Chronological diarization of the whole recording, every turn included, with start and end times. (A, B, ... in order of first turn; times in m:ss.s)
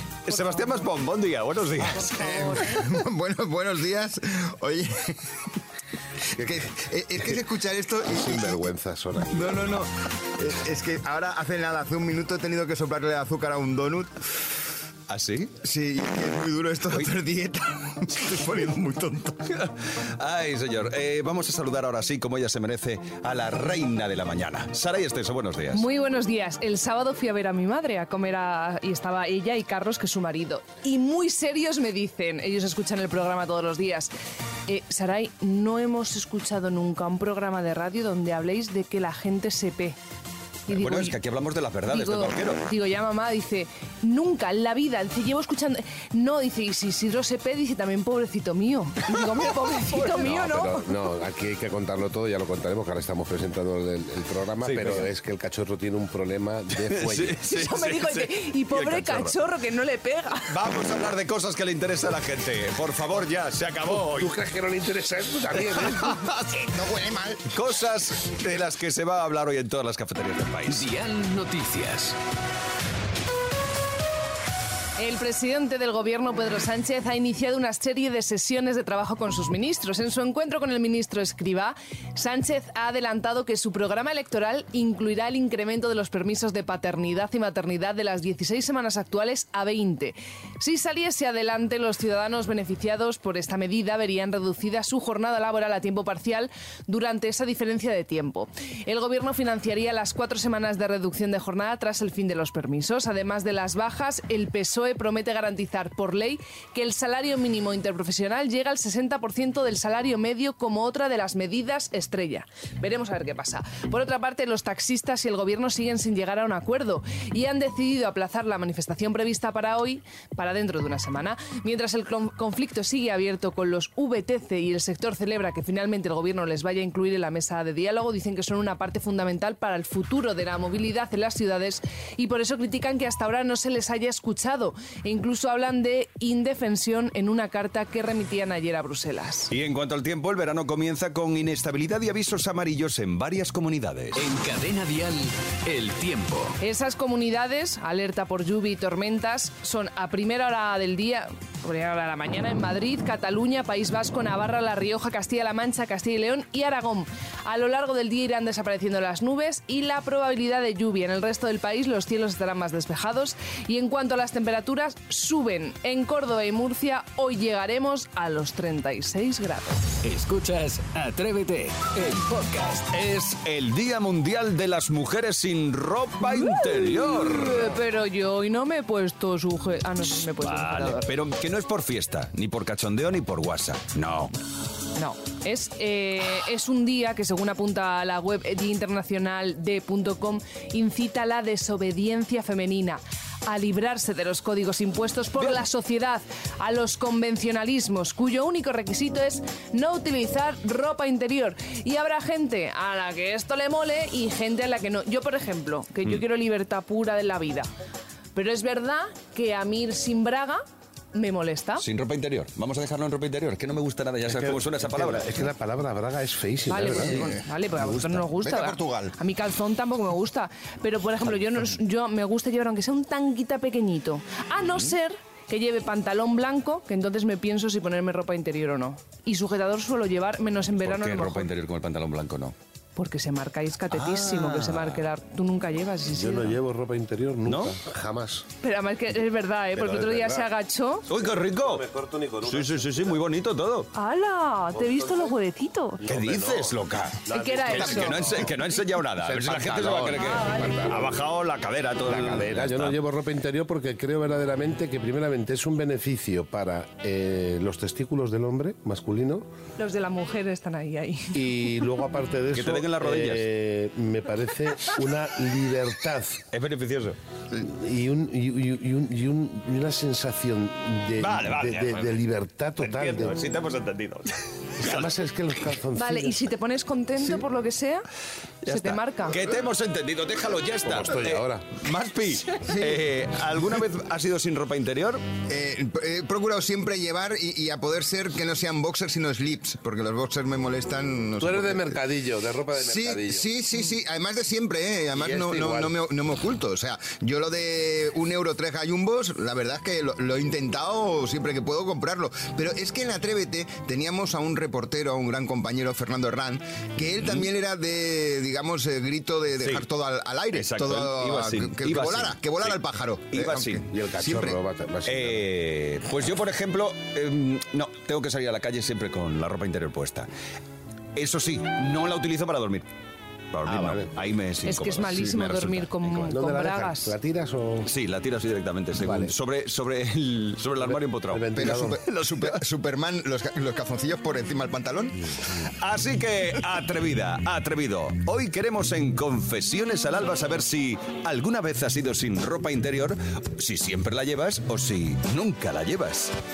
0:00.3-0:02.2 A
0:02.0-0:02.8 B
0:02.2-0:05.2 C
0:06.4-0:08.7 C
0:08.1-0:09.6 D
0:09.3-0:14.1 C
0:15.1-0:15.5 A
0:15.6-0:19.5 C
0:19.5-0:25.8 A
0:25.7-0:34.1 B
0:34.7-0:40.0 B
0:40.7-0:41.2 B
0:40.7-0:42.6 A
0:41.9-0:50.9 B
0:50.0-0:57.4 D
0:54.6-0:55.0 A
0:56.8-0:59.3 A
0:57.5-1:00.5 B
1:00.5-1:04.3 A
1:03.8-1:06.2 D
1:06.4-1:07.5 C
1:07.5-1:10.9 A
1:10.7-1:12.2 E
1:15.0-2:19.5 B
2:19.5-2:24.2 A
2:24.1-2:26.6 E
2:26.6-2:49.8 B
2:50.0-2:52.9 E
2:52.9-2:57.8 A
2:56.2-3:01.1 B
3:00.2-3:04.3 A
3:05.0-3:27.7 B
3:28.3-3:31.8 B
3:31.8-3:35.4 A
3:34.2-3:38.1 D
3:36.7-3:51.5 B
3:37.1-3:37.4 C
3:38.0-3:39.1 C
3:50.8-3:52.5 A
3:53.0-3:56.6 B
3:53.9-3:55.0 A
3:56.1-3:58.4 D
3:57.4-3:57.7 A
3:58.6-4:01.0 B
3:59.7-4:00.5 D
4:01.1-4:01.8 A
4:01.1-4:03.2 D
4:02.4-4:03.9 A
4:03.9-4:06.0 B
4:04.7-4:05.3 D
4:06.0-4:11.2 D
4:06.0-4:13.0 A
4:07.3-4:08.2 B
4:10.4-4:10.7 B
4:12.0-4:19.4 D
4:19.8-4:21.7 B
4:21.3-4:26.4 D
4:22.5-4:23.4 A
4:26.5-4:27.2 A
4:27.5-4:33.4 D
4:31.2-4:32.2 A
4:32.8-4:35.1 A
4:34.8-4:36.5 D
4:35.9-4:38.1 B
4:38.6-4:39.4 B
4:38.6-4:45.2 A
4:40.8-4:41.7 D
4:42.6-4:43.0 C
4:45.5-4:52.0 C
4:51.4-4:53.5 D
4:52.8-5:14.5 C
4:55.1-4:56.0 D
5:07.2-5:07.5 A
5:10.5-5:13.8 A
5:13.9-5:15.5 D
5:15.0-5:20.3 A
5:21.2-5:22.8 A
5:23.5-5:26.3 A
5:23.6-5:24.1 D
5:24.7-5:27.1 B
5:26.3-5:27.9 D
5:27.8-5:32.6 A
5:29.0-5:29.3 D
5:30.8-5:32.0 D
5:31.5-5:35.2 C
5:35.8-5:46.3 A